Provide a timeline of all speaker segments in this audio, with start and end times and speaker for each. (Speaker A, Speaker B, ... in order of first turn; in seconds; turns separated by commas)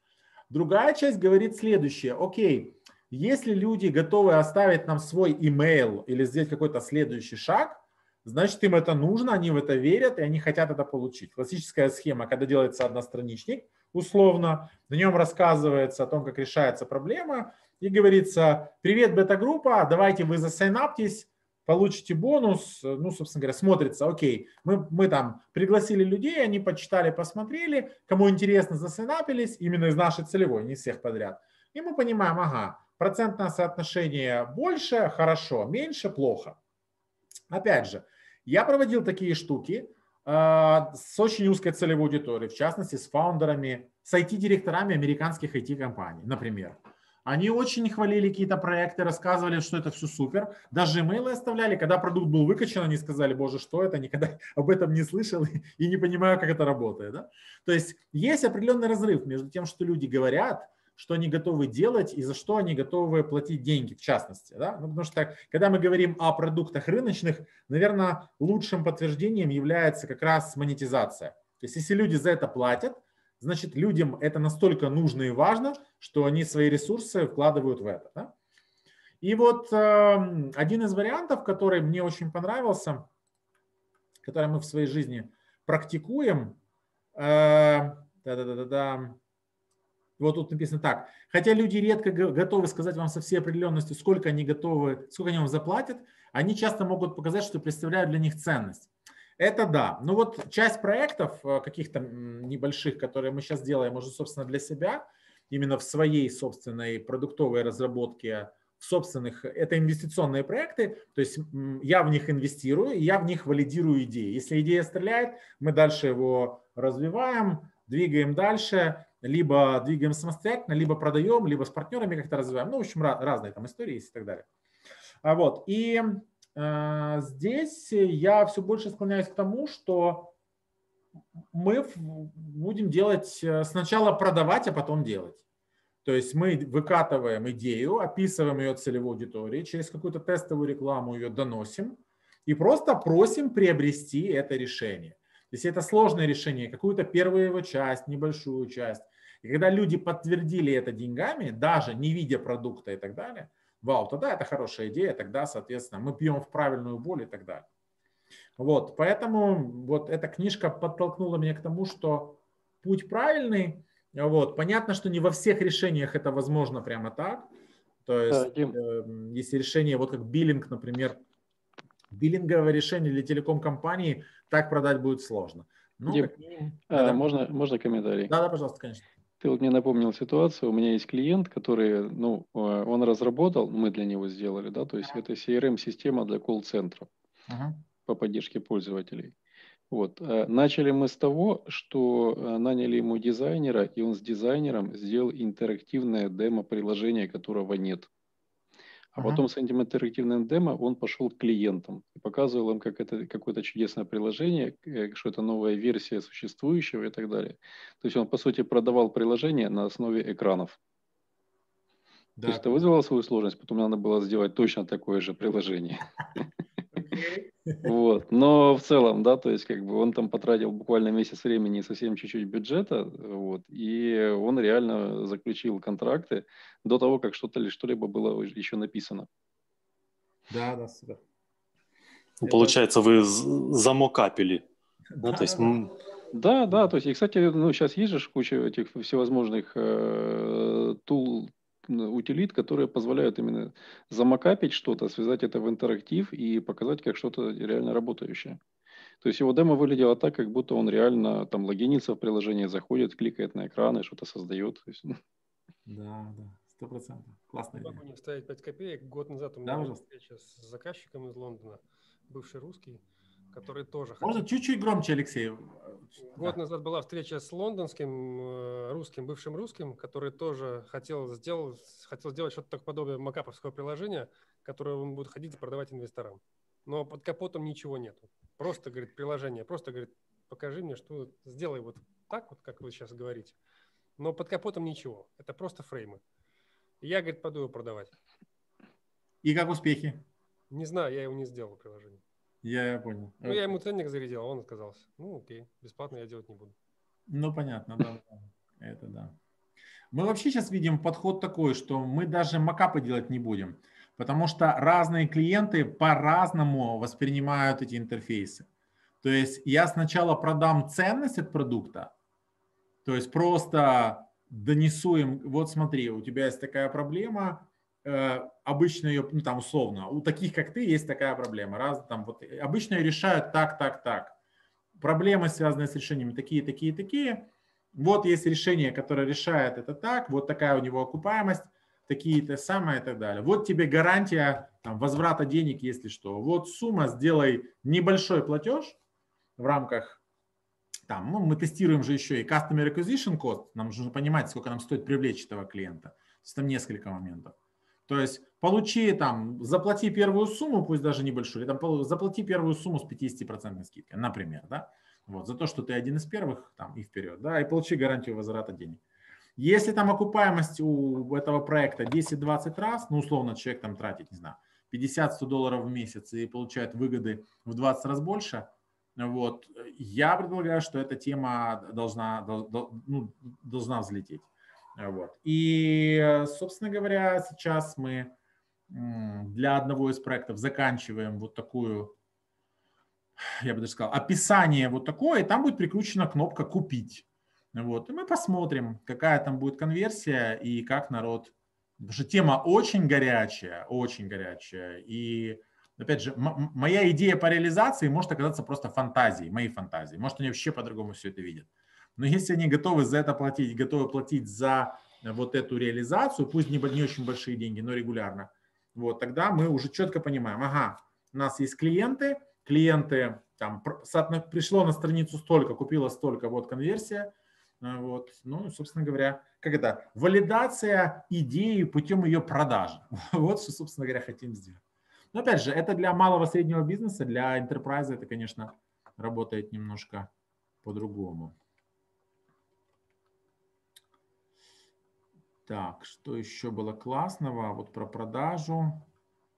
Speaker A: 0.5-36.6, Speaker A: 37.5-78.3, Speaker A: 79.2-83.1, Speaker A: 84.2-86.6, Speaker A: 87.2-89.2, Speaker A: 90.2-124.5, Speaker A: 125.2-130.3, Speaker A: 131.5-135.4, Speaker A: 136.0-157.7, Speaker A: 158.6-167.5, Speaker A: 168.1-171.2, Speaker B: 168.3-168.8, Speaker A: 172.1-177.2, Speaker B: 176.1-176.3, Speaker B: 176.9-178.3, Speaker A: 178.3-179.1, Speaker B: 179.4-187.1, Speaker A: 187.5-187.8, Speaker B: 188.1-189.3, Speaker B: 189.9-198.1, Speaker B: 199.1-210.8, Speaker A: 199.2-199.4, Speaker A: 212.4-212.9, Speaker B: 212.4-216.4, Speaker A: 216.9-217.8, Speaker B: 217.8-229.3, Speaker A: 230.5-231.2, Speaker C: 232.4-234.6, Speaker B: 232.4-232.7, Speaker A: 235.2-235.9, Speaker C: 235.2-235.9, Speaker B: 236.3-248.6, Speaker B: 249.2-255.2, Speaker A: 255.8-258.0, Speaker D: 257.8-264.4, Speaker A: 259.6-260.0, Speaker A: 264.2-266.6, Speaker D: 266.4-283.6, Speaker D: 284.2-286.2, Speaker D: 287.0-288.1, Speaker A: 289.4-290.2, Speaker D: 290.7-292.2, Speaker A: 292.6-293.8, Speaker D: 293.4-296.7, Speaker A: 297.3-299.3, Speaker A: 300.1-308.7, Speaker A: 309.2-312.1, Speaker A: 313.0-324.4, Speaker A: 325.0-339.0, Speaker A: 339.6-340.2, Speaker A: 341.1-347.5, Speaker A: 348.1-359.0, Speaker A: 359.6-374.4, Speaker A: 375.0-378.3, Speaker A: 378.9-382.1, Speaker A: 383.4-424.8, Speaker A: 425.3-430.3, Speaker A: 430.8-431.5, Speaker A: 435.6-439.1